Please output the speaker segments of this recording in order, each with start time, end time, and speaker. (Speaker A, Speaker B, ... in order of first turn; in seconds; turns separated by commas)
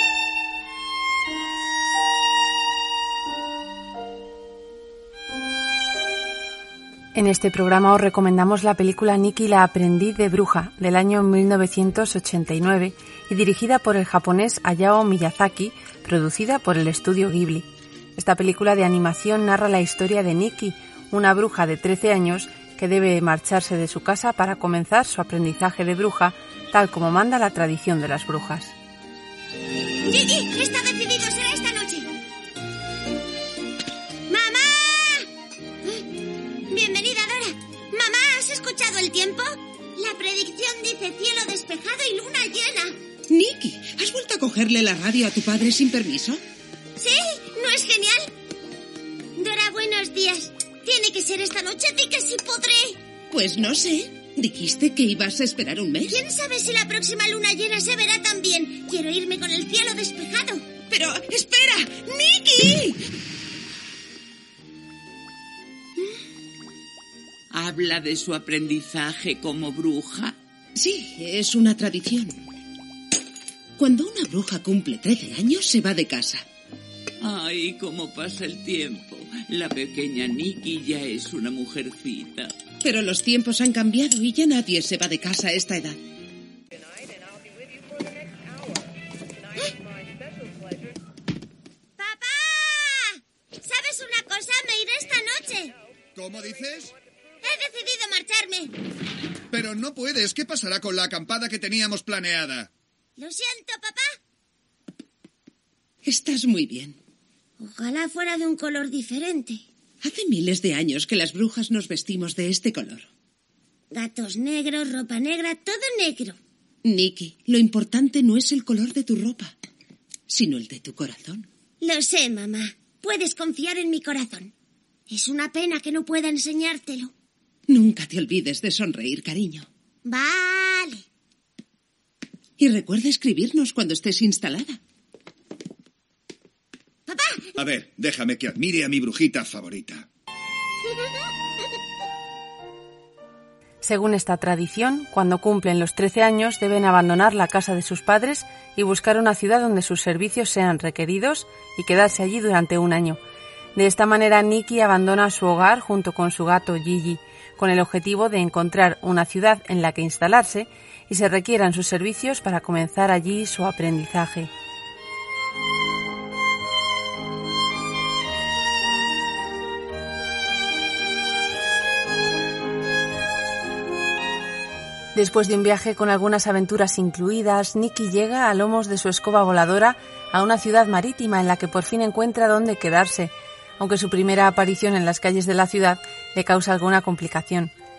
Speaker A: 7.1-28.8, Speaker B: 30.1-32.1, Speaker B: 34.3-35.3, Speaker B: 36.7-43.0, Speaker C: 43.3-46.4, Speaker B: 47.0-48.3, Speaker B: 49.4-53.0, Speaker C: 53.3-56.2, Speaker B: 56.1-60.6, Speaker C: 60.9-63.0, Speaker D: 67.5-70.4, Speaker C: 70.8-72.4, Speaker C: 73.8-76.5, Speaker D: 77.2-82.6, Speaker C: 82.8-86.0, Speaker B: 92.0-95.8, Speaker E: 96.2-96.9, Speaker B: 97.4-98.7, Speaker E: 99.5-102.7, Speaker B: 103.2-104.1, Speaker C: 106.0-107.0, Speaker B: 107.6-109.6, Speaker C: 110.0-113.1, Speaker B: 113.9-116.4, Speaker C: 116.8-119.5, Speaker C: 120.3-121.5, Speaker B: 121.8-124.5, Speaker B: 125.1-127.1, Speaker C: 127.7-129.7, Speaker B: 130.1-131.0, Speaker C: 132.6-134.8, Speaker B: 137.1-137.5, Speaker E: 137.6-140.1, Speaker A: 143.8-153.2, Speaker A: 153.8-164.5, Speaker A: 175.1-187.7